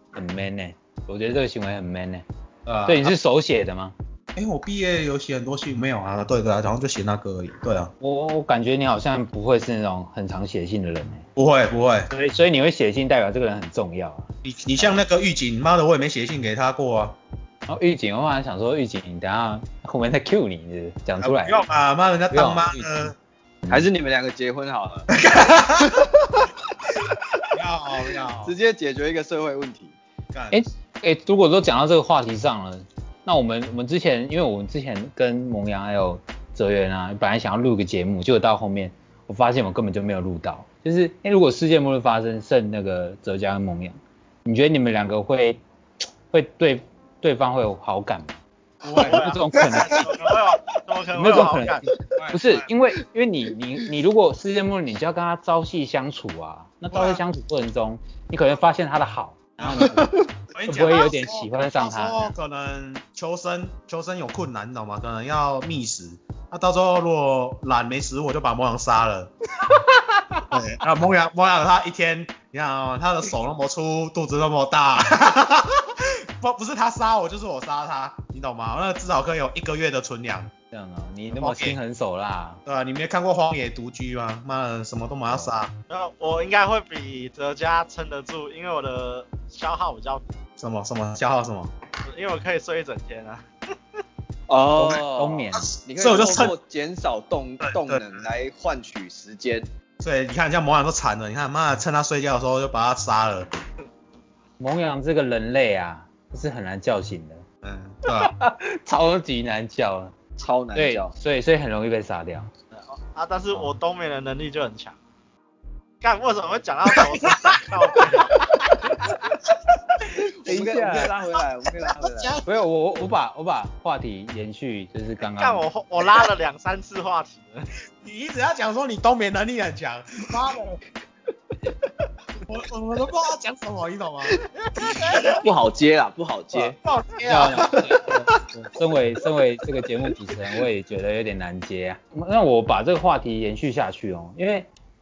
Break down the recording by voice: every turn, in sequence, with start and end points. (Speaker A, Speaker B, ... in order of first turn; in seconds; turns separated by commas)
Speaker A: 0.1-2.2, Speaker B: 2.7-3.1, Speaker A: 2.9-4.0, Speaker B: 4.3-7.9, Speaker A: 8.0-11.2, Speaker B: 11.4-12.1, Speaker A: 12.1-14.9, Speaker B: 14.4-17.2, Speaker A: 17.7-21.7, Speaker B: 21.2-23.1, Speaker A: 22.3-23.1, Speaker C: 23.7-25.1, Speaker B: 25.1-26.0, Speaker C: 25.8-27.2, Speaker B: 27.5-28.5, Speaker C: 28.4-29.9, Speaker B: 30.3-30.6, Speaker A: 30.5-45.6, Speaker A: 46.3-48.4, Speaker B: 48.8-50.0, Speaker D: 48.9-51.9, Speaker A: 49.0-50.1, Speaker A: 51.1-62.3, Speaker B: 51.2-52.7, Speaker B: 56.9-57.2, Speaker B: 59.6-69.3, Speaker C: 59.9-60.2, Speaker B: 70.5-80.5, Speaker A: 80.7-82.6, Speaker B: 81.4-81.8, Speaker B: 82.7-85.7, Speaker D: 85.9-90.2, Speaker B: 90.6-91.7, Speaker D: 92.0-93.5, Speaker C: 94.5-99.7, Speaker A: 94.8-95.7, Speaker B: 95.5-96.6, Speaker B: 97.6-98.3, Speaker B: 100.0-103.5, Speaker A: 104.6-107.5, Speaker B: 107.6-108.3, Speaker A: 108.1-110.2, Speaker C: 110.4-111.1, Speaker A: 110.8-112.5, Speaker D: 112.8-115.0, Speaker D: 116.0-118.9, Speaker B: 117.2-118.2, Speaker B: 118.8-119.2, Speaker C: 120.4-122.4, Speaker A: 120.5-121.1, Speaker B: 122.0-122.5, Speaker A: 122.5-125.7, Speaker D: 125.2-127.7, Speaker B: 128.0-130.8, Speaker B: 132.4-134.4, Speaker D: 135.0-135.3, Speaker C: 135.2-136.8, Speaker A: 136.5-144.7, Speaker B: 136.8-137.8, Speaker C: 137.8-138.3